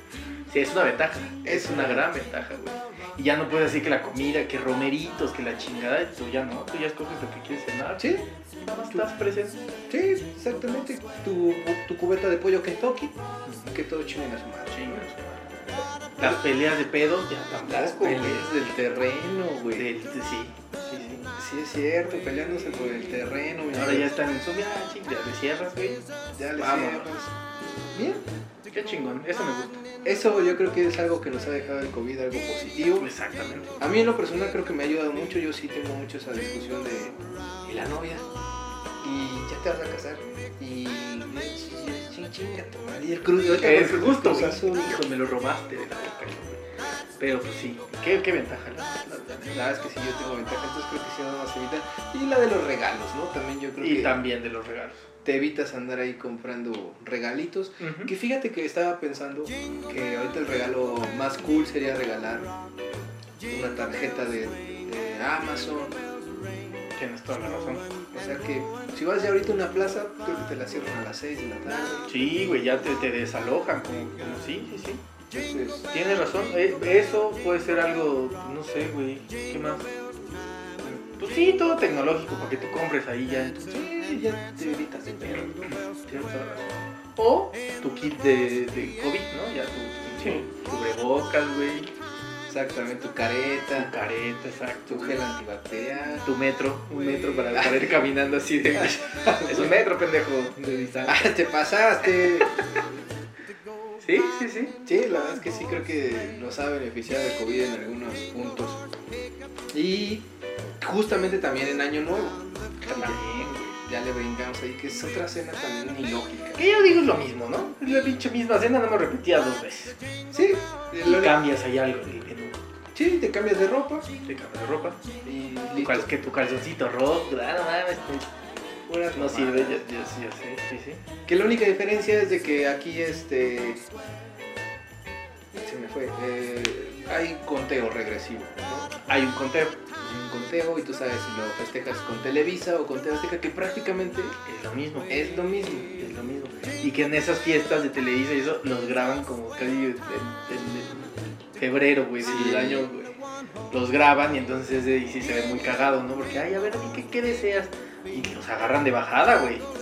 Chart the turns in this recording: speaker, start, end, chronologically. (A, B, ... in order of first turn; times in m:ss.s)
0:00.5-0:09.6 A
0:01.4-0:02.1 B
0:08.0-0:08.3 B
0:09.9-0:13.2 B
0:13.5-0:13.7 A
0:13.7-0:15.0 B
0:14.7-0:15.6 A
0:16.2-0:18.5 A
0:17.6-0:19.9 B
0:19.8-0:21.3 A
0:21.2-0:24.2 B
0:23.7-0:26.1 A
0:26.4-0:27.3 B
0:26.6-0:27.1 A
0:27.9-0:28.2 B
0:28.7-0:29.8 A
0:30.0-0:33.1 B
0:33.0-0:33.8 A
0:33.8-0:38.2 B
0:39.0-0:45.0 B
0:43.5-0:46.6 A
0:47.2-0:49.6 A
0:49.5-0:54.2 B
0:53.8-0:55.1 A
0:55.2-1:02.5 B
0:57.8-0:58.1 A
1:03.5-1:06.0 B
1:07.0-1:07.8 A
1:08.1-1:12.1 B
1:12.1-1:15.0 A
1:15.3-1:15.9 B
1:15.9-1:19.9 A
1:20.8-1:23.7 A
1:23.7-1:25.7 B
1:25.7-1:31.9 A
1:32.5-1:33.9 B
1:33.8-1:35.2 A
1:34.9-1:36.3 B
1:36.2-1:41.3 A
1:37.5-1:37.9 B
1:38.8-1:39.8 B
1:41.1-1:42.6 B
1:44.0-1:44.8 A
1:44.9-1:48.8 B
1:49.7-1:50.3 B
1:50.8-1:53.3 B
1:52.9-1:53.8 A
1:53.9-1:56.6 B
1:56.6-2:00.0 A
2:00.3-2:01.4 B
2:01.0-2:02.6 A
2:02.9-2:04.1 B
2:04.2-2:05.0 A
2:05.2-2:06.1 B
2:05.8-2:08.3 A
2:08.9-2:09.9 B
2:09.1-2:11.0 A
2:11.3-2:13.8 B
2:15.6-2:18.9 B
2:18.9-2:19.8 A
2:20.0-2:24.4 B
2:24.4-2:25.2 A
2:25.1-2:25.9 B
2:26.0-2:33.1 A
2:32.2-2:32.9 B
2:33.7-2:39.7 A